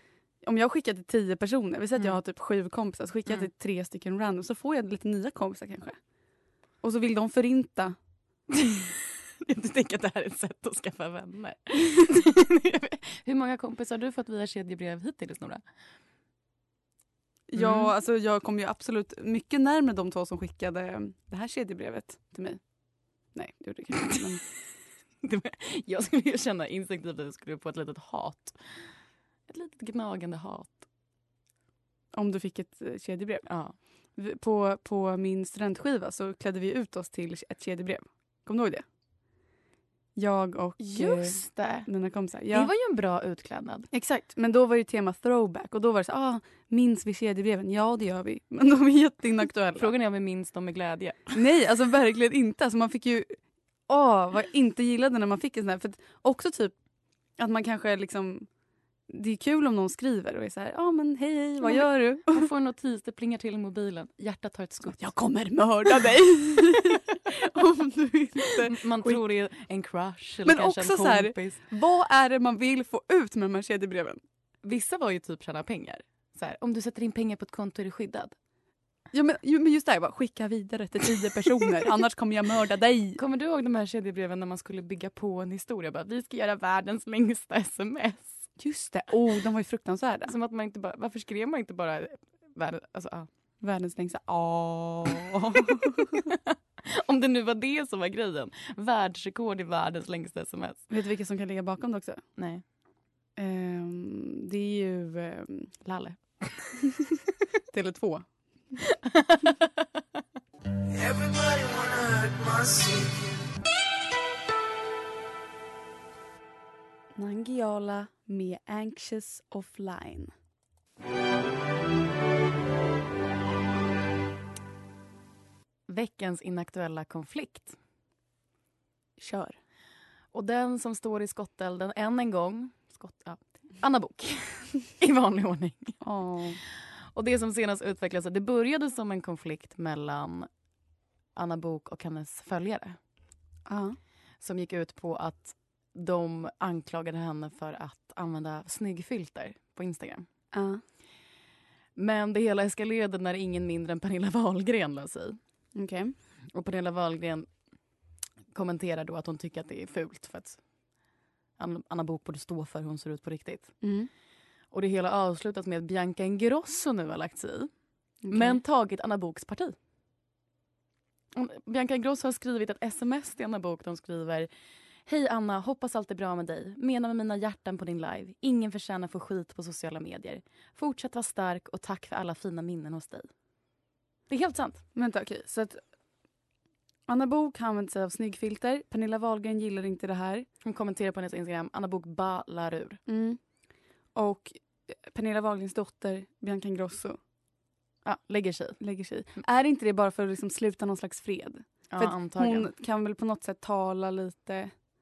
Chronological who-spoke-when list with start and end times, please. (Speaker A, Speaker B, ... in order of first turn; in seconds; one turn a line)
Speaker A: 0.4-6.0
Speaker A: 6.8-8.0
Speaker B: 8.5-15.6
Speaker A: 17.5-22.6
Speaker B: 17.6-17.9
Speaker A: 23.3-24.4
Speaker B: 25.2-28.6
Speaker B: 29.5-30.8
Speaker A: 32.1-33.5
Speaker B: 33.5-33.7
Speaker A: 34.1-38.8
Speaker A: 40.1-42.7
Speaker B: 40.8-41.9
Speaker B: 42.5-43.9
Speaker A: 43.9-49.9
Speaker B: 49.8-51.4
Speaker A: 51.3-53.4
Speaker A: 53.9-56.7
Speaker A: 57.4-58.5
Speaker A: 59.1-62.5
Speaker B: 61.6-65.1
Speaker A: 64.8-69.2
Speaker B: 68.7-71.6
Speaker A: 70.4-74.2
Speaker B: 74.6-78.3
Speaker A: 79.1-83.2
Speaker B: 83.2-88.4
Speaker A: 88.6-90.3
Speaker B: 90.2-93.3
Speaker A: 93.6-96.3
Speaker B: 96.3-100.8
Speaker A: 100.9-102.2
Speaker B: 102.4-102.6
Speaker A: 103.4-105.7
Speaker B: 105.8-106.6
Speaker A: 107.7-108.3
Speaker B: 109.0-109.5
Speaker B: 111.5-113.1
Speaker A: 117.2-120.3
Speaker B: 125.9-127.8
Speaker A: 129.2-129.6
Speaker B: 130.3-136.0
Speaker A: 136.0-136.6
Speaker B: 137.1-140.5
Speaker B: 141.3-143.0
Speaker A: 143.7-144.0
Speaker B: 144.4-150.2
Speaker A: 150.5-150.8
Speaker B: 151.9-155.4
Speaker A: 155.7-156.1
Speaker B: 156.5-157.5
Speaker B: 158.5-160.6
Speaker B: 161.6-163.8
Speaker A: 163.8-164.1
Speaker B: 164.7-167.7
Speaker A: 168.2-168.6
Speaker B: 168.3-169.8
Speaker B: 171.3-174.5
Speaker B: 175.1-183.3
Speaker B: 184.3-184.8
Speaker A: 184.9-185.8
Speaker A: 187.1-190.5
Speaker B: 190.6-193.0
Speaker A: 193.1-193.4
Speaker A: 194.1-197.2
Speaker B: 198.0-198.8
Speaker A: 198.8-204.8
Speaker B: 201.9-202.7